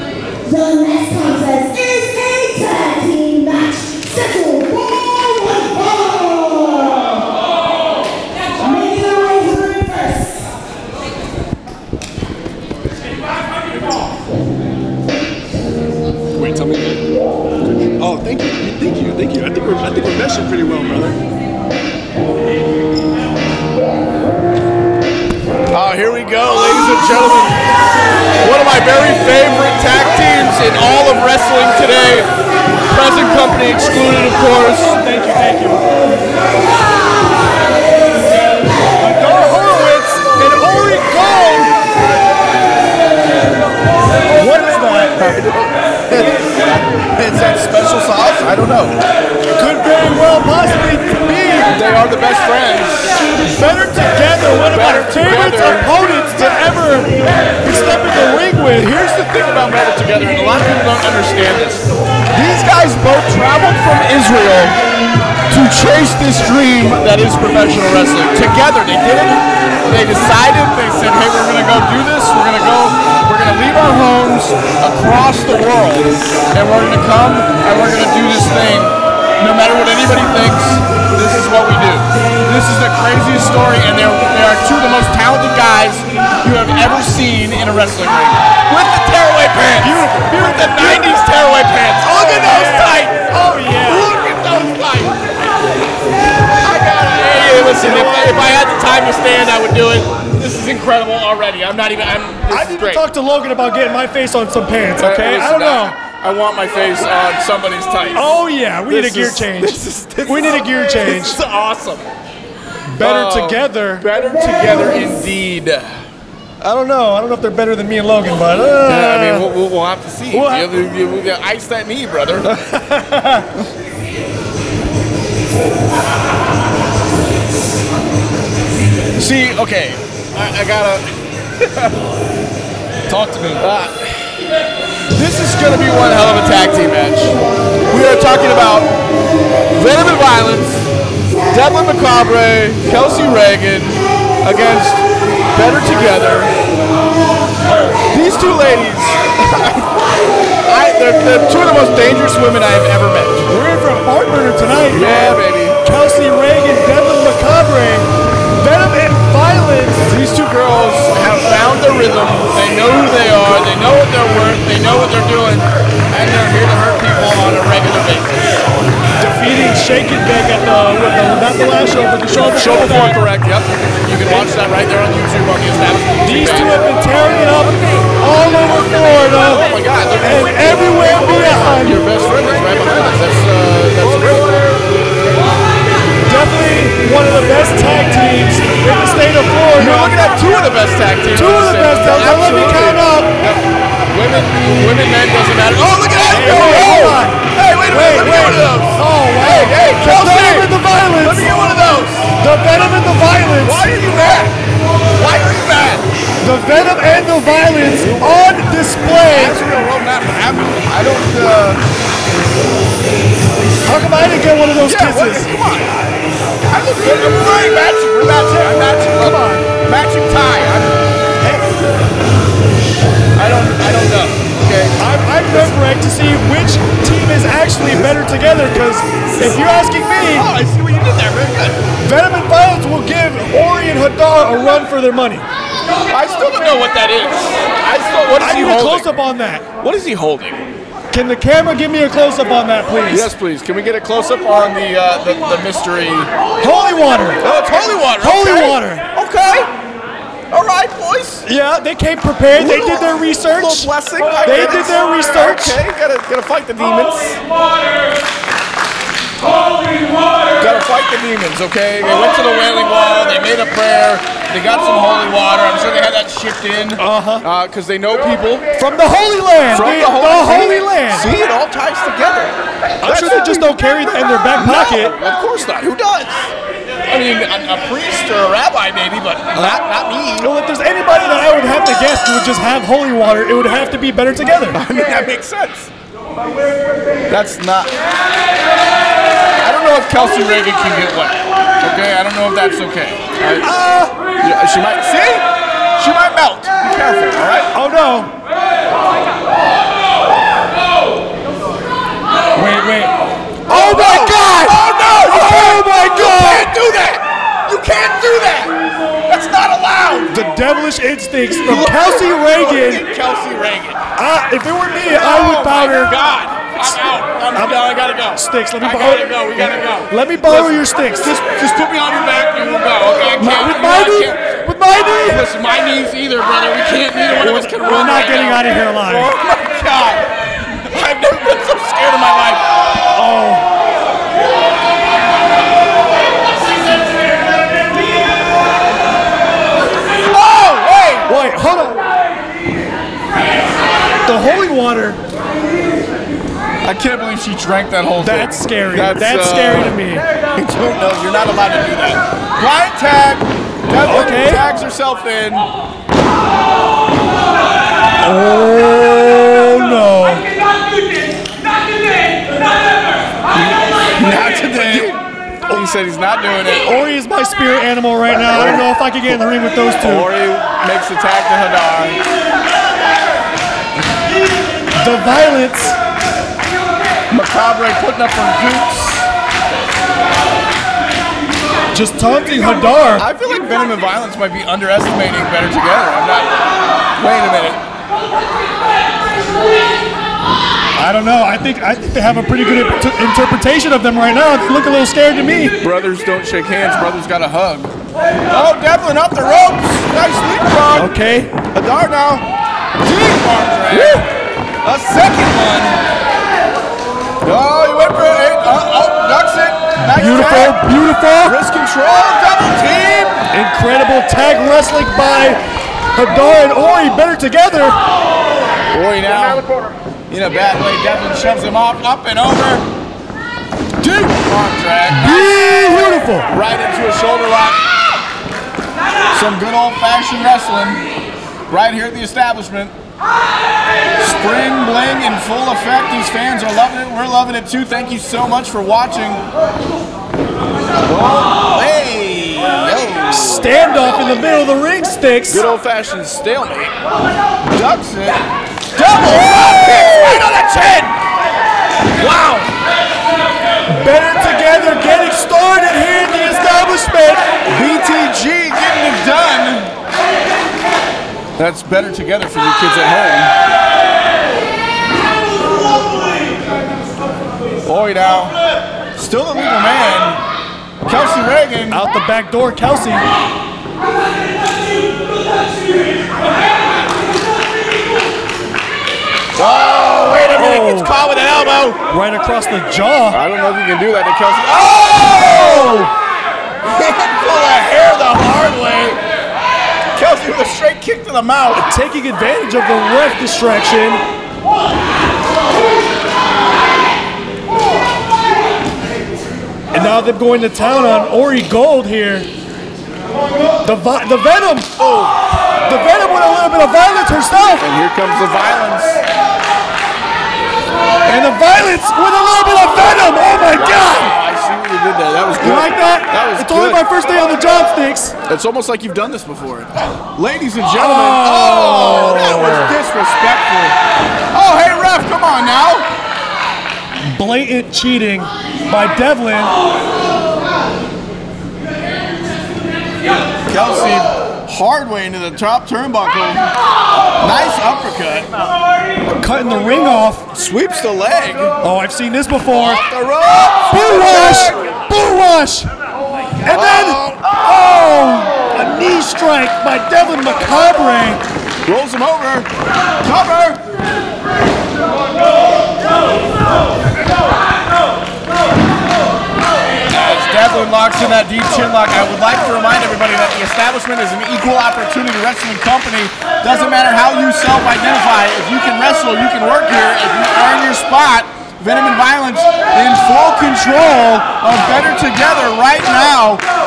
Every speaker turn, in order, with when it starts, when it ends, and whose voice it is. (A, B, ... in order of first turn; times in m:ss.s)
0:00.4-0:07.3 A
0:08.6-0:10.5 A
0:16.3-0:17.0 B
0:17.9-0:21.2 B
0:25.7-0:27.6 B
0:28.4-0:32.3 B
0:32.9-0:34.9 B
0:34.8-0:35.8 C
0:39.0-0:41.7 C
0:44.3-0:45.2 C
0:45.2-0:49.0 B
0:49.6-0:51.7 C
0:51.7-0:53.2 B
0:53.5-0:58.9 C
0:54.7-0:55.9 B
0:58.7-1:04.8 B
1:05.5-1:33.2 B
1:29.8-1:31.2 C
1:32.0-1:34.1 C
1:33.8-1:35.2 B
1:36.6-1:43.0 B
1:37.8-1:38.5 C
1:42.5-1:46.0 C
1:45.0-1:48.3 B
1:48.1-1:51.4 C
1:48.9-1:52.1 B
1:52.9-1:54.1 C
1:53.0-1:56.0 B
1:56.6-1:59.5 C
1:58.8-2:02.5 B
2:00.3-2:00.7 C
2:02.5-2:03.5 C
2:09.2-2:12.0 B
2:13.1-2:13.6 C
2:13.6-2:14.5 B
2:15.1-2:17.3 B
2:17.9-2:18.9 B
2:19.7-2:20.9 B
2:21.5-2:26.5 B
2:27.7-2:30.0 B
2:30.6-2:33.5 B
2:33.5-2:40.0 C
2:34.9-2:35.8 B
2:40.0-2:48.5 B
2:49.2-2:53.2 C
2:52.3-2:56.8 B
2:56.2-2:59.6 C
2:59.4-3:04.6 B
3:00.2-3:02.0 C
3:06.2-3:10.2 C
3:09.7-3:22.3 B
3:11.3-3:13.3 C
3:16.3-3:21.5 C
3:22.4-3:23.9 C
3:23.6-3:24.5 B
3:25.2-3:26.0 B
3:26.4-3:29.6 C
3:29.2-3:31.8 B
3:33.9-3:35.5 C
3:34.8-3:35.9 B
3:36.7-3:41.6 B
3:38.5-3:39.7 C
3:43.3-3:45.8 B
3:45.0-3:50.5 C
3:47.8-3:48.2 B
3:50.3-3:51.8 B
3:52.0-3:55.4 C
3:56.1-3:59.1 B
3:58.3-3:59.6 C
3:59.8-4:00.6 B
4:01.1-4:03.3 C
4:03.1-4:06.3 B
4:06.6-4:07.4 C
4:07.4-4:09.7 B
4:08.1-4:09.0 C
4:10.5-4:11.4 B
4:11.4-4:13.9 C
4:12.5-4:17.4 B
4:14.4-4:15.8 C
4:20.6-4:28.7 B
4:27.0-4:27.4 C
4:28.7-4:31.3 C
4:29.7-4:36.5 B
4:33.0-4:35.2 C
4:37.0-4:40.5 B
4:39.5-4:39.8 C
4:40.4-4:44.8 C
4:44.7-4:45.9 B
4:47.3-4:47.9 B
4:49.6-4:53.7 B
4:53.6-4:54.1 C
4:54.4-4:57.7 B
4:57.7-4:58.3 C
5:02.5-5:03.1 C
5:03.7-5:06.7 C
5:03.7-5:08.7 B
5:09.2-5:10.4 B
5:10.3-5:13.0 C
5:11.6-5:14.0 B
5:14.2-5:16.1 C
5:15.1-5:32.6 B
5:17.5-5:17.8 C
5:18.3-5:21.4 C
5:23.4-5:25.4 C
5:27.3-5:29.3 C
5:33.1-5:33.7 C
5:40.2-5:41.3 B
5:41.2-5:42.0 C
5:44.2-5:45.2 C
5:46.8-5:50.0 B
5:48.2-5:50.3 C
5:50.5-5:55.7 B
5:54.0-5:54.6 C
5:58.2-6:00.5 C
6:04.2-6:07.0 B
6:04.8-6:05.1 C
6:06.8-6:10.3 C
6:08.5-6:09.4 B
6:10.0-6:12.2 B
6:15.0-6:16.0 C
6:17.3-6:19.3 B
6:21.9-6:23.2 C
6:23.2-6:27.8 B
6:31.0-6:35.7 C
6:35.8-6:37.9 B
6:38.5-6:41.2 B
6:40.9-6:41.5 C
6:41.7-6:42.5 B
6:43.0-6:44.2 B
6:43.9-6:44.2 C
6:44.8-6:46.0 B
6:47.4-6:50.8 B
6:50.0-6:51.6 C
6:51.4-6:53.4 B
6:53.5-6:55.6 C
6:56.1-6:58.0 C
6:58.9-6:59.7 B
7:00.3-7:02.8 B
7:04.0-7:05.6 B
7:05.1-7:06.5 C
7:06.5-7:07.8 B
7:09.3-7:11.1 B
7:11.7-7:12.9 B
7:14.2-7:19.4 B
7:21.0-7:23.7 B
7:23.3-7:25.6 C
7:25.5-7:26.9 B
7:27.6-7:28.4 B
7:28.9-7:31.2 B
7:32.2-7:32.7 B
7:33.9-7:37.5 C
7:37.7-7:39.9 B
7:41.6-7:43.5 B
7:47.8-7:48.6 B
7:49.2-7:50.4 B
7:51.0-7:52.0 B
7:51.9-7:53.3 C
7:59.6-8:02.0 B
8:00.5-8:01.1 C
8:02.1-8:03.4 C
8:03.3-8:06.1 B
8:05.3-8:06.1 C
8:06.8-8:09.2 B
8:10.2-8:11.9 B
8:11.7-8:14.2 C
8:19.9-8:22.5 C
8:23.8-8:24.9 C
8:25.0-8:25.4 B
8:25.8-8:27.9 C
8:27.8-8:29.2 B
8:31.2-8:34.3 C
8:33.7-8:37.0 B
8:35.6-8:38.3 C
8:38.4-8:44.0 B
8:40.9-8:42.9 C
8:44.5-8:46.1 B
8:47.2-8:49.8 C
8:53.7-8:56.7 B
8:57.4-8:58.5 B
8:59.4-9:00.5 C
9:00.5-9:01.7 B
9:01.8-9:03.0 C
9:02.7-9:04.8 B
9:03.9-9:05.9 C
9:06.6-9:11.4 C
9:06.7-9:07.4 B
9:11.8-9:12.7 B
9:13.2-9:13.8 B
9:20.1-9:36.6 B